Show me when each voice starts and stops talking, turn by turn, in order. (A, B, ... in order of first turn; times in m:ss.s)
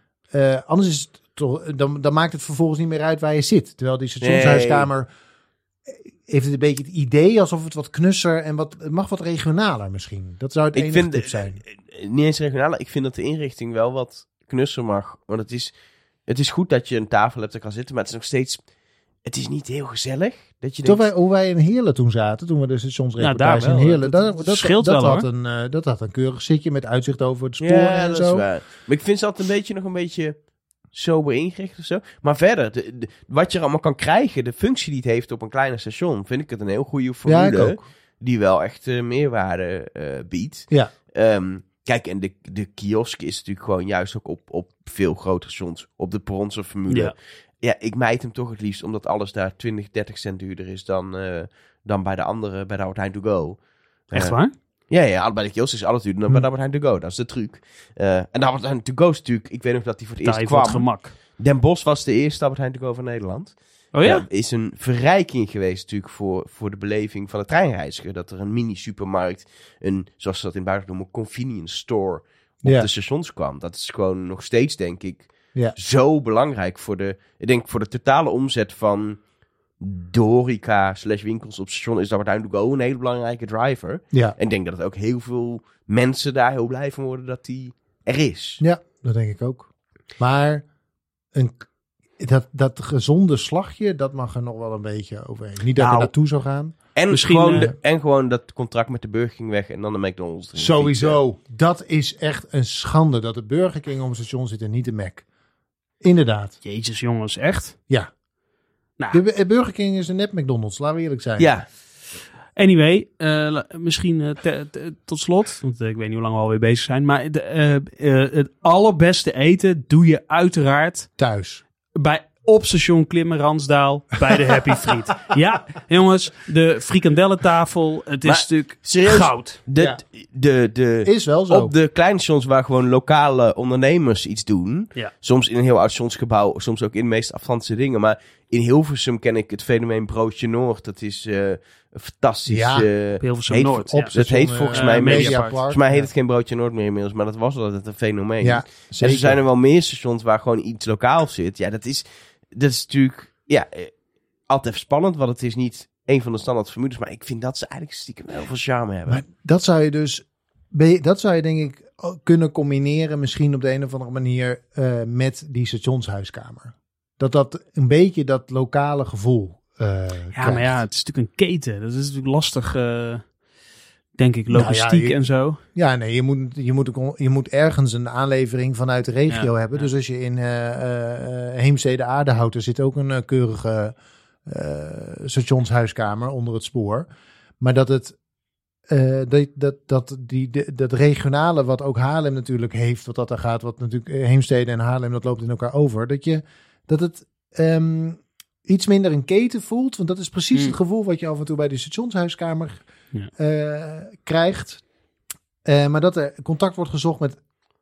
0:00.3-0:05.1 A
0:04.2-0:04.9 B
0:06.2-0:11.6 A
0:10.7-0:15.7 B
0:16.2-0:18.6 B
0:19.2-0:21.0 B
0:20.8-0:28.4 A
0:23.2-0:25.3 C
0:27.6-0:30.4 B
0:30.9-0:54.4 B
0:37.2-0:37.8 A
0:54.1-0:54.5 C
0:54.9-1:19.2 B
1:00.2-1:01.1 C
1:03.9-1:04.2 C
1:19.8-1:28.6 B
1:28.6-1:30.6 A
1:31.3-1:31.6 A
1:32.2-1:36.8 A
1:35.8-1:36.1 C
1:36.9-1:41.2 B
1:37.1-1:37.7 C
1:40.6-1:45.2 A
1:46.0-1:46.6 A
1:46.6-1:47.7 C
1:49.1-1:51.5 A
1:51.4-1:51.6 B
1:52.6-2:01.1 C
2:01.2-2:01.6 A
2:01.9-2:09.6 C
2:08.2-2:33.9 B
2:11.0-2:11.7 A
2:22.5-2:22.9 A
2:23.2-2:24.1 C
2:23.9-2:26.1 A
2:24.7-2:25.6 C
2:28.4-2:29.4 A
2:34.5-2:39.2 B
2:39.1-2:50.8 A
2:50.3-2:53.2 C
2:54.2-2:55.6 C
2:54.5-2:55.2 A
2:55.7-3:03.9 A
2:59.3-2:59.9 C
3:04.4-3:07.1 A
3:07.6-3:08.2 A
3:08.9-3:22.8 A
3:23.4-3:24.8 A
3:25.6-3:27.4 A